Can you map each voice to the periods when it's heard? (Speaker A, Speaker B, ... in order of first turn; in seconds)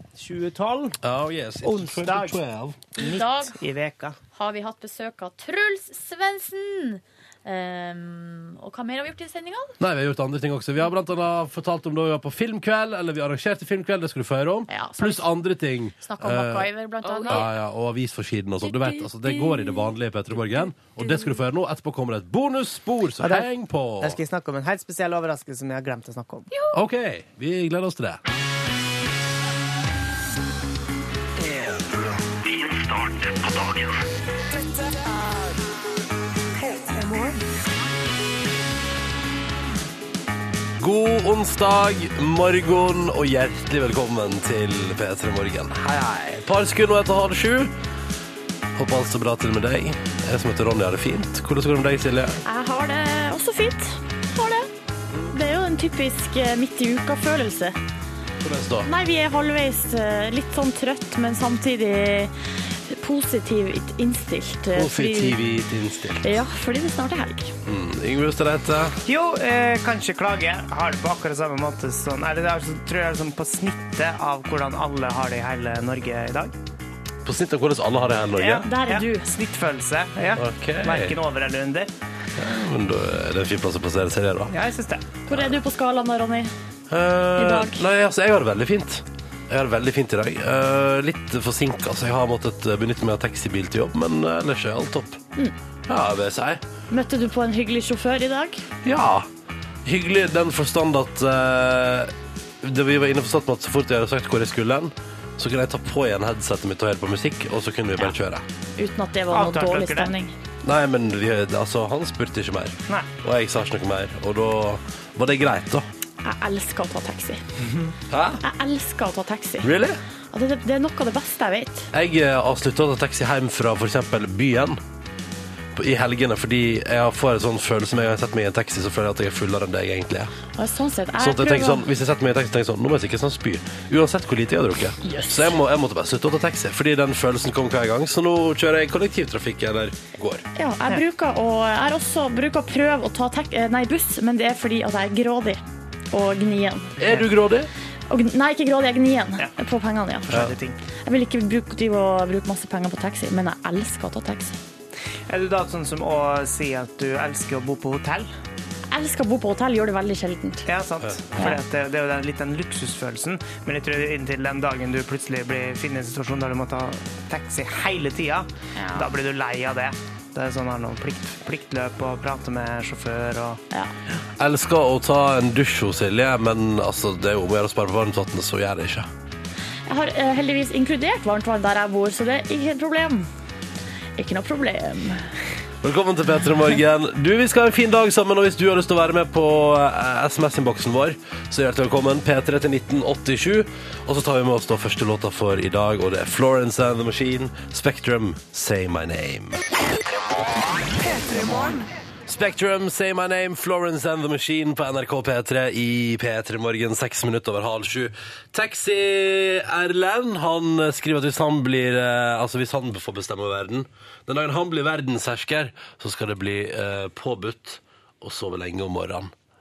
Speaker A: 0.2-1.0, 1.6-2.4, 3.0-4.2, 23.2-23.5, 24.0-26.5, 69.0-76.5, 78.4-81.9, 84.5-85.1, 109.3-110.2, 150.3-150.8, 155.3-158.3, 160.7-173.6
Speaker B: 1.0-2.8, 9.8-24.2, 26.7-28.2, 40.8-47.7, 48.8-52.4, 55.1-55.4, 58.4-58.9, 64.7-66.4, 67.7-69.0, 77.2-78.7, 80.3-81.2, 82.4-84.5, 85.3-85.5, 86.9-95.2, 95.9-96.6, 98.8-99.3, 99.8-108.4, 110.6-115.8, 118.1-118.4, 119.6-120.0, 121.9-124.8, 125.8-130.3, 131.2-140.4, 147.0-147.7, 150.3-150.6, 174.4-179.1, 185.8-199.6, 202.3-219.3
Speaker C: 3.0-3.5, 4.4-9.7, 14.7-15.3, 16.0-17.5, 18.8-19.5, 52.5-54.7, 55.3-57.8, 58.8-62.3, 63.0-65.4, 66.2-67.5, 78.7-79.2, 85.3-86.5, 87.4-87.8, 96.9-98.7, 108.8-110.3, 116.2-117.4, 118.4-119.7, 120.3-121.9, 130.6-131.8, 135.1-135.5, 140.6-145.6, 146.1-147.0, 148.1-150.3, 151.1-154.6, 158.9-160.6, 168.8-169.1, 179.9-183.3, 184.2-185.2